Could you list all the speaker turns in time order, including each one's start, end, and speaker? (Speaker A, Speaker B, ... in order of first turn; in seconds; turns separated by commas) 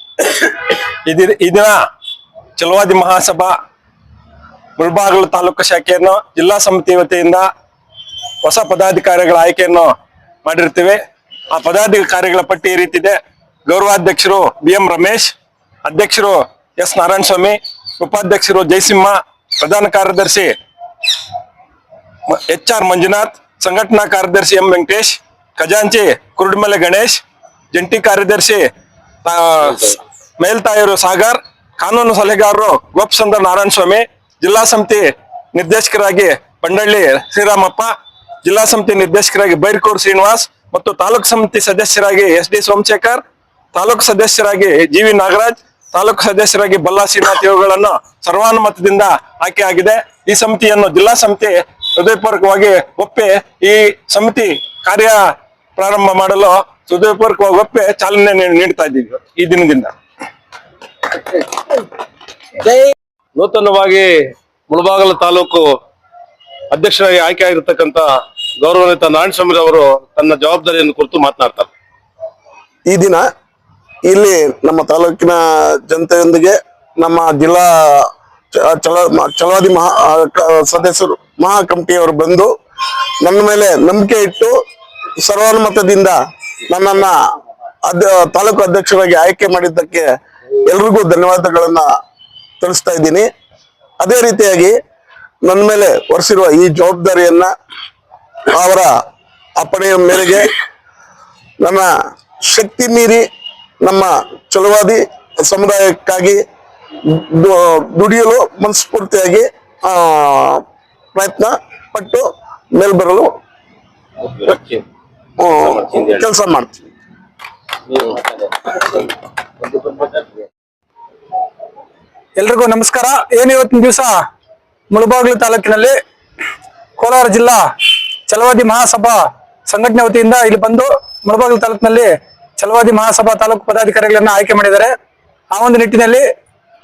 Speaker A: 0.2-1.7, Speaker A: 2.6-3.5, Speaker A: 4.8-7.5, Speaker A: 8.4-9.9, Speaker A: 10.4-11.0, Speaker A: 11.5-20.5, Speaker A: 22.3-28.7, Speaker A: 29.2-37.9, Speaker A: 38.4-43.2, Speaker A: 43.8-55.2, Speaker A: 55.8-59.9, Speaker B: 63.4-65.7, Speaker B: 66.7-68.0, Speaker B: 68.6-71.7, Speaker C: 72.9-73.2, Speaker C: 74.1-82.5, Speaker C: 83.2-84.5, Speaker C: 85.2-86.2, Speaker C: 86.7-87.2, Speaker C: 87.9-90.1, Speaker C: 90.7-91.9, Speaker C: 92.6-93.3, Speaker C: 94.0-94.8, Speaker C: 95.5-97.5, Speaker C: 98.5-98.9, Speaker C: 99.6-100.5, Speaker C: 101.6-101.9, Speaker C: 102.5-103.2, Speaker C: 103.8-106.4, Speaker C: 107.1-110.6, Speaker C: 111.2-113.3, Speaker B: 114.2-114.8, Speaker C: 115.4-116.8, Speaker B: 115.8-116.2, Speaker B: 117.9-118.2, Speaker B: 119.8-120.2, Speaker D: 122.4-124.1, Speaker D: 124.9-126.0, Speaker D: 127.0-127.6, Speaker D: 128.3-134.9, Speaker D: 135.5-136.2